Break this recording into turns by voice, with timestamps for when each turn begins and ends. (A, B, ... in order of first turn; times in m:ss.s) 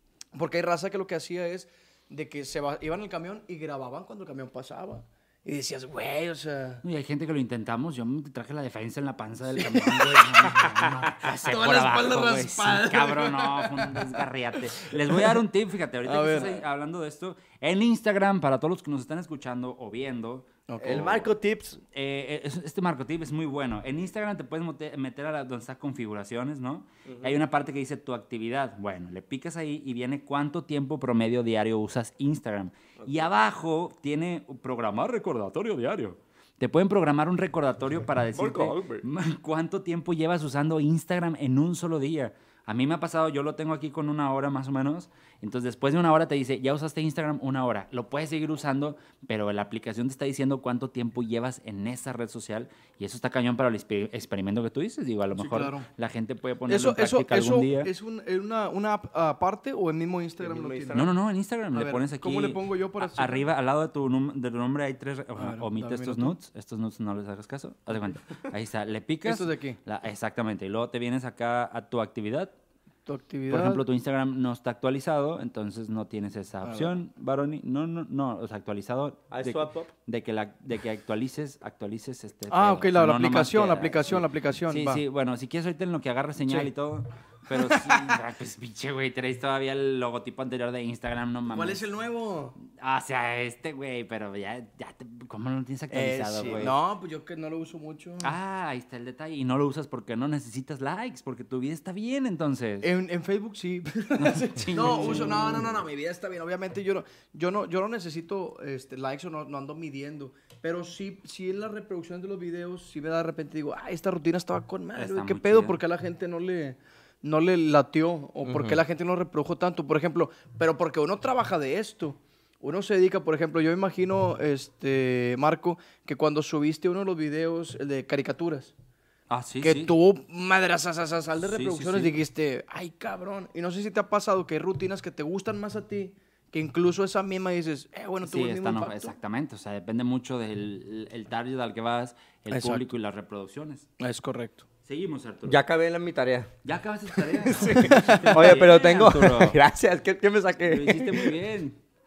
0:00.4-0:06.8 A
0:06.8-0:21.2 B
0:09.6-0:10.6 A
0:11.2-0:15.4 A
0:16.0-0:16.6 A
0:20.7-0:21.2 A
0:20.8-0:21.8 C
0:21.9-0:57.9 B
0:27.1-0:27.4 C
0:33.0-0:33.3 C
0:38.3-0:39.0 C
0:55.4-0:55.9 A
0:56.7-1:01.0 A
1:00.4-1:01.1 C
1:00.9-1:12.5 B
1:01.7-1:03.5 A
1:05.4-1:06.3 A
1:09.2-1:09.8 A
1:13.1-1:13.8 A
1:13.5-1:31.9 B
1:16.6-1:17.0 A
1:19.3-1:19.9 C
1:22.5-1:25.0 A
1:27.5-1:28.2 A
1:31.5-1:32.6 A
1:32.7-1:36.8 B
1:35.9-1:38.4 A
1:38.2-1:42.9 B
1:42.8-2:08.7 A
1:44.2-1:45.7 B
1:55.0-1:55.8 B
1:58.4-1:58.8 C
2:09.3-2:09.9 B
2:09.6-2:19.2 A
2:11.4-2:12.2 B
2:18.2-2:23.9 B
2:22.5-2:22.8 A
2:24.0-2:24.6 A
2:24.8-2:25.6 B
2:25.5-2:26.5 C
2:26.6-2:29.6 B
2:27.4-2:28.5 A
2:27.6-2:31.3 C
2:30.7-2:31.8 B